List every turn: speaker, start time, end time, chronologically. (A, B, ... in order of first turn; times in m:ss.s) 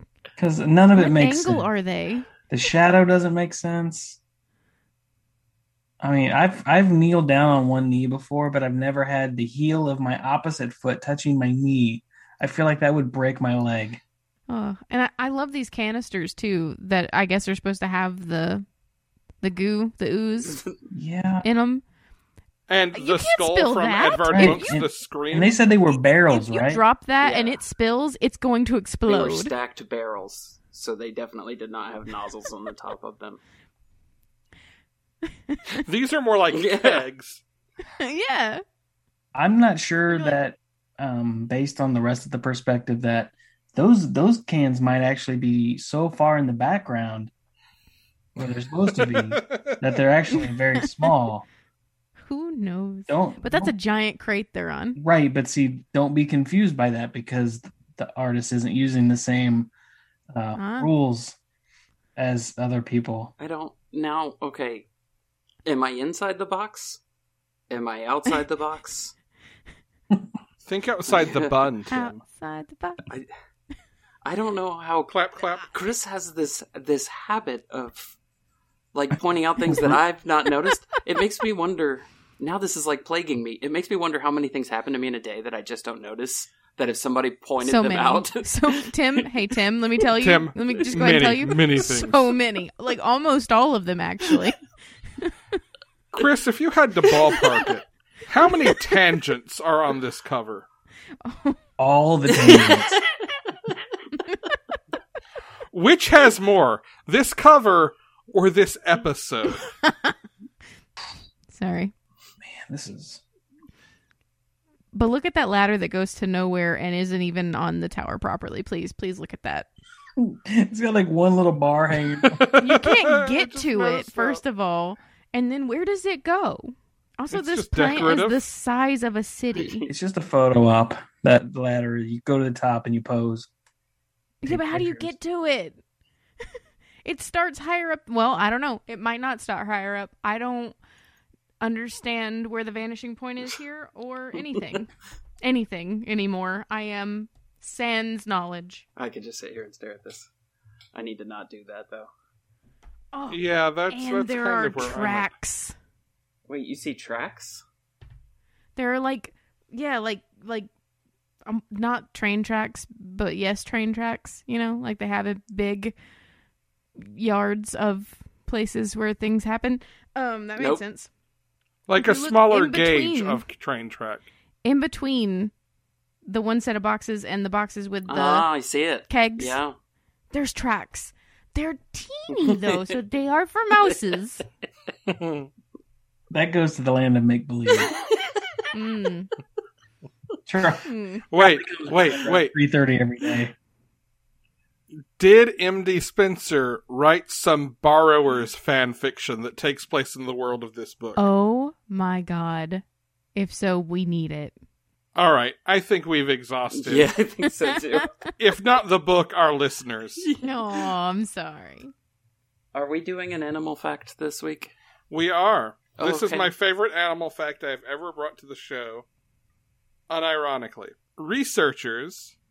0:00.4-0:01.7 A
0:00.9-0:02.3 B
0:02.5-0:04.2 A
0:06.0-0:14.0 A
0:14.5-0:18.6 B
0:19.4-0:20.6 B
0:20.9-0:21.4 A
0:21.4-0:21.8 B
0:22.7-0:25.6 C
0:22.9-0:24.8 B
0:24.3-0:26.8 A
0:26.3-0:29.5 B
0:27.2-0:27.6 D
0:29.0-0:33.4 D
0:35.3-0:35.8 B
0:35.8-0:37.4 C
0:36.5-0:37.0 D
0:38.0-0:38.6 B
0:39.3-0:47.3 A
0:40.1-0:40.3 B
0:48.4-0:51.4 A
0:48.4-0:49.8 C
0:50.3-0:51.1 B
0:52.2-0:55.0 B
0:53.1-0:53.7 A
0:55.0-0:59.7 A
1:00.3-1:01.4 A
1:00.6-1:00.9 B
1:02.2-1:03.3 A
1:03.4-1:04.9 D
1:05.6-1:07.0 D
1:07.7-1:09.1 D
1:10.6-1:12.2 C
1:11.0-1:11.5 D
1:11.9-1:13.0 B
1:14.2-1:15.1 D
1:15.1-1:15.7 C
1:15.7-1:18.2 D
1:18.9-1:29.2 D
1:19.6-1:20.0 A
1:27.6-1:34.6 B
1:30.2-1:32.3 C
1:36.1-1:40.6 C
1:41.2-1:41.6 B
1:41.8-1:43.0 A
1:45.7-1:49.7 C
1:49.8-1:50.1 B
1:51.5-1:51.9 B
1:52.4-1:53.2 A
1:54.9-1:59.7 B
2:00.2-2:02.4 A
2:02.2-2:04.4 C
2:02.5-2:09.8 B
2:07.3-2:08.4 C
2:09.8-2:13.5 A
2:14.4-2:15.8 B
2:14.4-2:15.1 A
2:17.0-2:20.8 B
2:21.6-2:28.8 B
2:29.0-2:30.3 D
2:30.9-2:32.1 D
2:33.1-2:35.7 B
2:33.3-2:35.3 C
2:36.5-2:37.6 D
2:38.8-2:40.7 B
2:41.4-2:46.0 B
2:47.0-2:51.1 B
2:50.6-2:50.8 D
2:51.9-2:54.2 C
2:52.0-2:53.4 B
2:54.6-2:55.5 B
2:56.2-2:58.5 B
2:58.1-2:59.7 D
2:59.1-2:59.6 B
3:00.3-3:04.4 B
3:02.3-3:02.8 D
3:05.1-3:05.5 C
3:06.3-3:07.9 A
3:08.7-3:09.3 B
3:10.4-3:13.5 A
3:10.8-3:11.2 B
3:11.3-3:12.5 C
3:15.2-3:21.2 C
3:21.2-3:22.8 B
3:23.3-3:24.5 B
3:25.2-3:27.1 C
3:26.7-3:28.1 D
3:27.9-3:28.3 B
3:28.4-3:30.2 C
3:30.2-3:30.9 D
3:30.4-3:31.9 B
3:32.7-3:34.7 D
3:35.1-3:39.0 C
3:36.0-3:36.5 D
3:40.1-3:42.4 C